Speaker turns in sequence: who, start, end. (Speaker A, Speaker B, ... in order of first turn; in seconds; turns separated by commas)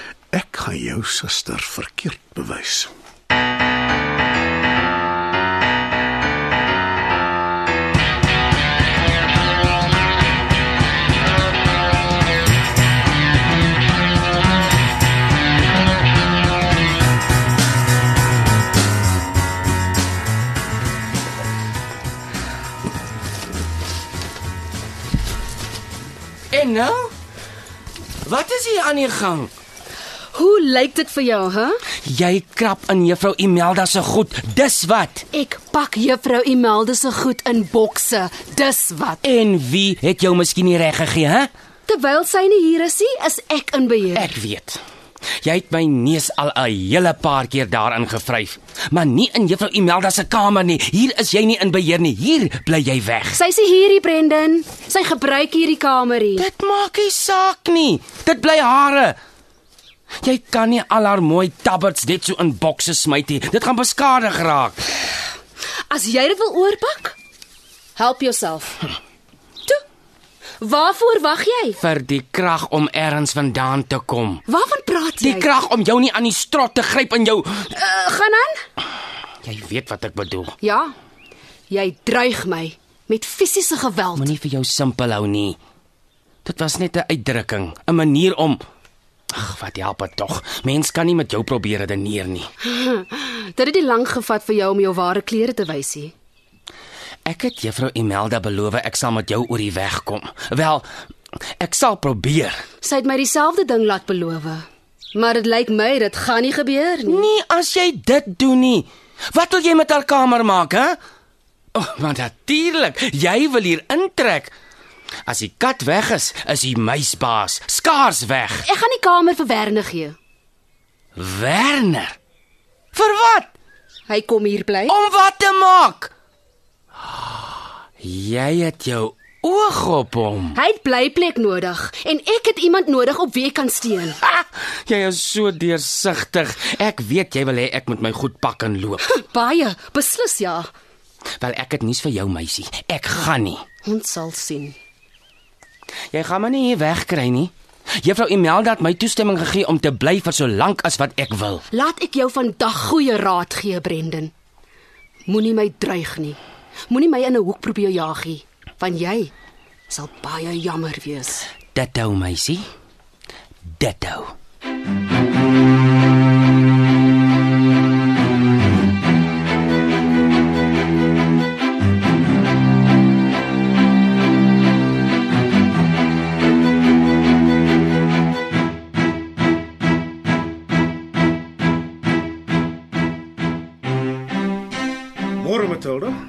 Speaker A: 0.3-2.9, Speaker B: 26.5-27.1, Speaker B: 28.2-29.5, Speaker C: 30.3-31.8, Speaker B: 32.0-35.3, Speaker C: 35.3-39.2, Speaker B: 39.2-41.5, Speaker C: 41.9-44.3, Speaker B: 44.1-44.8, Speaker B: 45.4-53.4, Speaker C: 53.3-56.5, Speaker B: 56.4-59.2, Speaker B: 60.2-64.9, Speaker C: 65.9-67.2, Speaker C: 68.0-68.8, Speaker C: 70.6-71.8, Speaker B: 71.8-74.4, Speaker C: 74.5-75.5, Speaker B: 75.2-77.7, Speaker C: 77.7-78.6, Speaker B: 79.4-80.5, Speaker C: 80.6-80.9, Speaker C: 81.7-84.3, Speaker B: 84.2-85.6, Speaker B: 86.4-88.6, Speaker B: 89.3-92.5, Speaker C: 92.6-96.1, Speaker B: 97.2-100.8, Speaker B: 101.6-102.6, Speaker C: 102.8-107.3, Speaker B: 107.0-111.0, Speaker B: 111.8-114.5, Speaker B: 115.2-118.7, Speaker C: 118.6-120.2, Speaker B: 121.2-122.1, Speaker B: 122.9-123.5, Speaker C: 124.1-124.9, Speaker B: 124.9-126.1, Speaker B: 128.0-130.6, Speaker C: 130.5-134.2, Speaker B: 134.2-139.0, Speaker C: 139.0-140.7, Speaker B: 141.4-143.6, Speaker C: 143.8-144.8, Speaker B: 146.1-151.7, Speaker C: 151.7-154.3, Speaker C: 155.3-159.3, Speaker C: 159.9-161.5, Speaker B: 161.7-162.6, Speaker B: 163.8-164.3, Speaker A: 185.4-186.1